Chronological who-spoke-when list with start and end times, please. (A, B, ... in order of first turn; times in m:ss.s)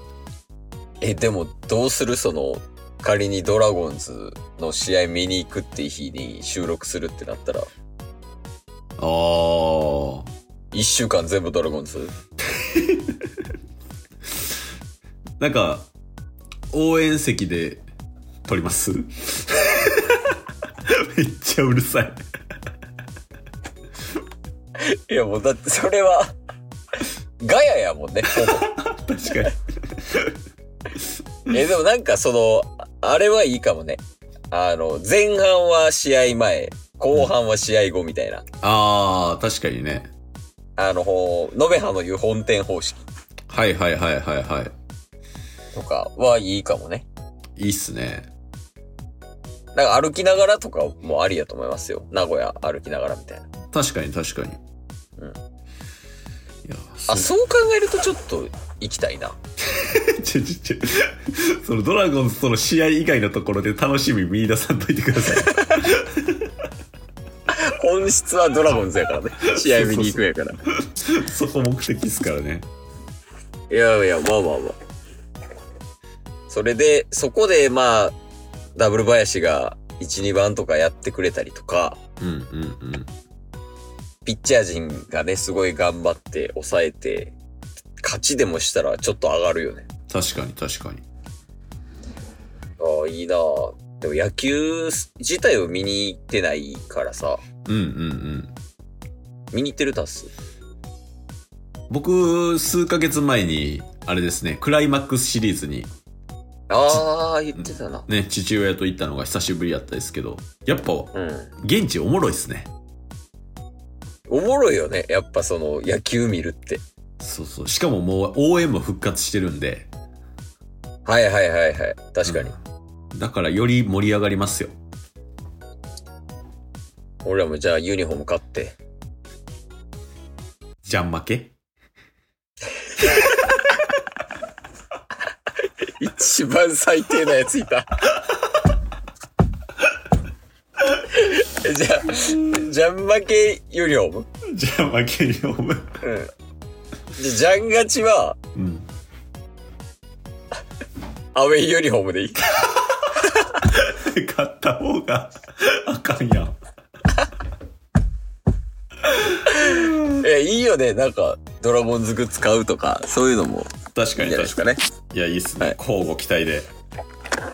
0:01.0-0:07.7 A
0:09.0-0:10.3 B
0:10.7-0:12.1 A
0:12.6-0:13.2 B
0:15.4-0:15.9 B
0:16.7-0:17.9 B
0:18.5-0:22.2 B
0:24.8-0:26.3 A
0:27.4-0:28.7 A
0:28.3-0:30.4 B
0:31.5-0:38.4 A
0:38.6-0:40.1 B
0:40.8-0:43.0 A
0:43.5-0:44.7 B
0:45.7-0:47.1 A
0:47.6-0:48.3 B
0:49.7-0:53.5 A
0:53.7-0:54.6 B
0:56.6-0:57.3 B
0:57.1-0:59.4 A
0:59.7-1:06.5 B
1:07.6-1:10.6 A
1:09.4-1:10.2 B
1:10.8-1:12.7 B
1:13.7-1:14.8 A
1:16.5-1:18.2 A
1:18.8-1:22.0 A
1:22.2-1:23.1 B
1:24.2-1:27.4 A
1:28.0-1:29.9 A
1:30.1-1:31.0 B
1:32.8-1:37.4 A
1:37.7-1:38.6 B
1:39.5-1:40.3 A
1:41.9-1:45.9 B
1:46.7-1:48.1 A
1:47.6-1:52.7 B
1:51.1-1:51.5 A
1:54.3-1:56.8 A
1:57.2-1:59.9 B
2:01.1-2:02.5 A
2:02.3-2:02.5 B
2:03.2-2:04.7 B
2:07.2-2:08.8 A
2:10.8-2:11.5 B
2:16.0-2:17.9 A
2:20.9-2:24.3 A
2:24.5-2:25.9 B
2:26.0-2:26.3 A
2:27.2-2:28.4 A
2:28.6-2:28.9 B
2:31.3-2:32.4 A
2:32.9-2:36.6 B
2:39.5-2:44.8 A
2:43.9-2:44.6 B
2:45.1-2:46.7 B